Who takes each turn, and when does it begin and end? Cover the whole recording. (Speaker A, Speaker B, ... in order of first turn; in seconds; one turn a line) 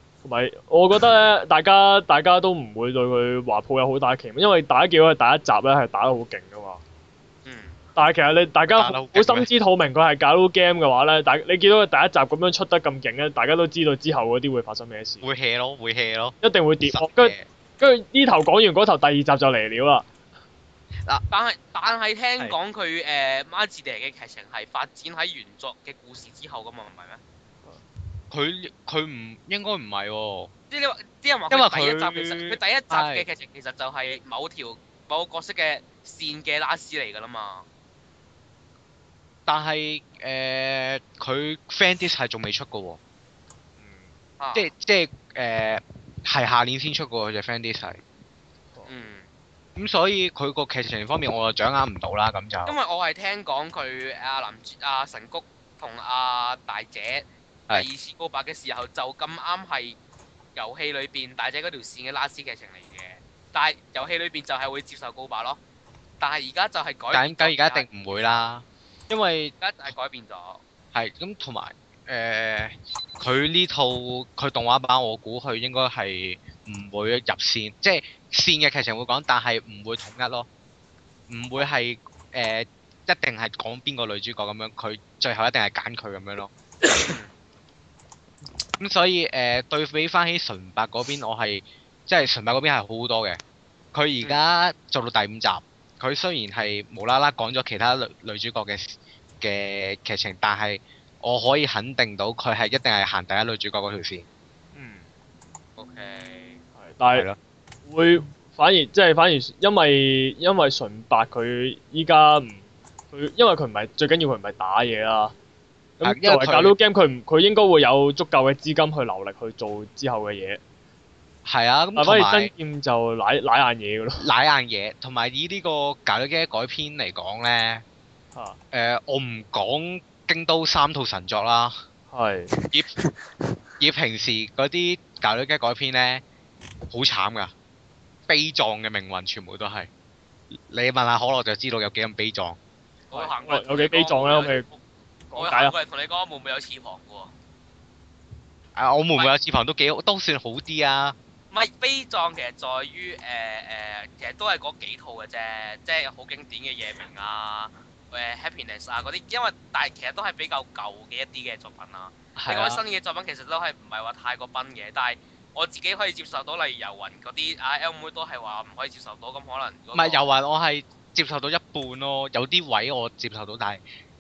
Speaker A: 0.2-6.8
Speaker B: 7.5-7.8
Speaker A: 8.0-15.2
Speaker C: 8.8-9.5
Speaker C: 15.2-17.5
Speaker A: 16.4-20.1
Speaker B: 21.3-27.2
Speaker C: 28.3-30.5
Speaker B: 30.7-37.6
Speaker C: 31.5-33.3
Speaker C: 39.5-43.0
Speaker A: 43.8-44.1
Speaker B: 44.4-44.7
Speaker C: 44.5-48.0
Speaker B: 48.9-49.2
Speaker C: 49.8-52.8
Speaker B: 52.6-60.0
Speaker B: 60.5-65.6
Speaker B: 66.2-68.2
Speaker C: 67.1-69.5
Speaker B: 69.6-70.6
Speaker C: 70.9-80.5
Speaker C: 81.3-86.5
Speaker B: 87.0-87.3
Speaker C: 88.8-93.4
Speaker C: 93.9-104.2
Speaker A: 104.7-105.1
Speaker B: 105.8-106.6
Speaker A: 106.8-107.3
Speaker A: 107.9-115.3
Speaker A: 116.0-120.6
Speaker C: 116.0-116.7
Speaker C: 121.5-122.5
Speaker A: 122.0-124.2
Speaker C: 124.2-127.8
Speaker C: 128.7-131.8
Speaker A: 132.1-132.5
Speaker C: 133.8-136.2
Speaker C: 136.9-137.5
Speaker C: 138.3-139.9
Speaker C: 140.7-142.6
Speaker B: 143.1-144.8
Speaker A: 143.1-144.7
Speaker A: 145.3-145.8
Speaker B: 145.3-147.3
Speaker C: 148.8-151.2
Speaker B: 151.5-170.2
Speaker C: 162.4-162.8
Speaker C: 169.9-173.8